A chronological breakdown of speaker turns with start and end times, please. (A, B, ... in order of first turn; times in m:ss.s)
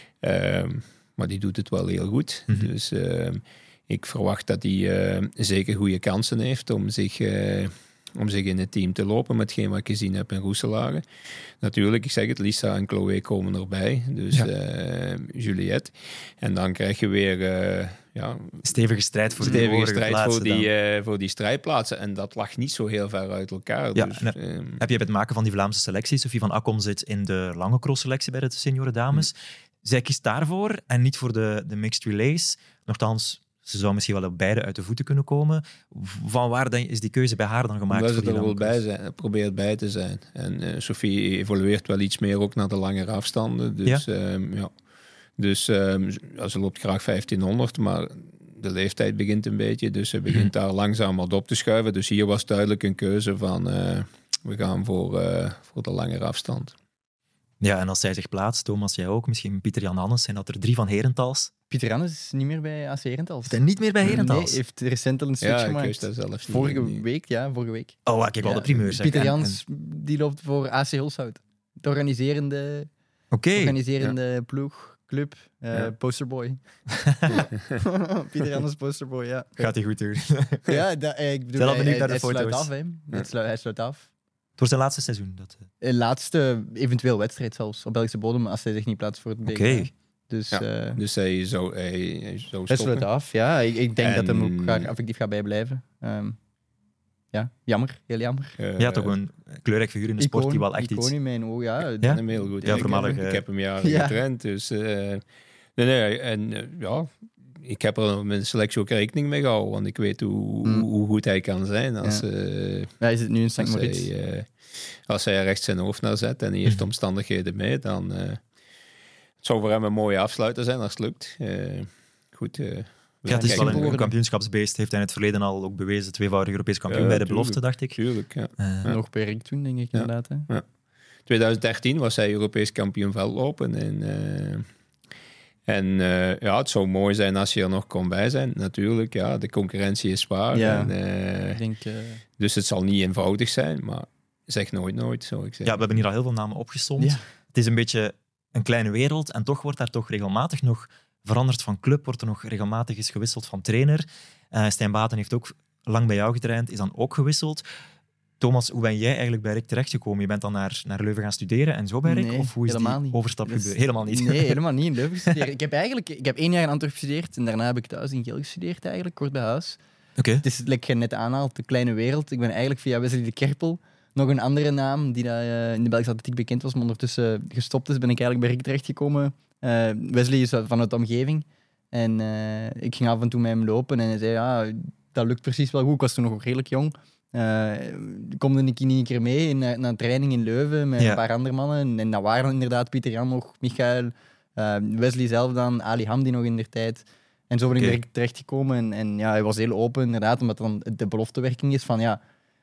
0:00.2-0:11.0 A
0:11.6-0:18.6 A
0:18.6-0:20.7 B
0:19.4-0:24.8 A
0:24.0-0:38.8 B
0:37.9-0:44.7 A
0:45.4-0:56.8 A
0:57.6-1:01.5 B
1:01.7-1:12.9 C
1:03.5-1:04.6 B
1:05.4-1:07.0 A
1:08.1-1:09.6 B
1:13.3-1:13.8 B
1:13.6-1:16.6 C
1:17.0-1:17.3 B
1:17.3-1:19.7 C
1:17.5-1:17.8 A
1:19.6-1:20.8 B
1:20.7-1:24.1 C
1:21.6-1:22.7 B
1:24.6-1:25.7 B
1:25.8-1:31.0 C
1:29.5-1:29.9 B
1:30.5-1:33.1 A
1:32.7-1:36.4 C
1:34.0-1:34.9 A
1:37.3-1:38.6 C
1:38.6-1:39.2 A
1:38.8-1:41.1 B
1:40.2-1:43.2 C
1:42.0-1:43.4 B
1:42.0-1:45.2 A
1:43.8-1:44.2 C
1:45.8-1:52.9 A
1:53.0-1:54.1 C
1:53.6-1:58.4 A
1:59.4-2:04.0 A
2:03.3-2:08.0 B
2:03.3-2:04.1 C
2:06.9-2:09.0 A
2:08.6-2:08.9 B
2:08.8-2:10.5 C
2:09.9-2:10.7 A
2:11.3-2:14.7 A
2:15.7-2:21.6 A
2:20.5-2:20.9 C
2:21.5-2:22.2 C
2:22.4-2:26.0 A
2:25.6-2:37.6 B
2:38.4-2:44.6 B
2:42.0-2:49.8 C
2:50.2-2:50.4 B
2:50.4-3:22.2 C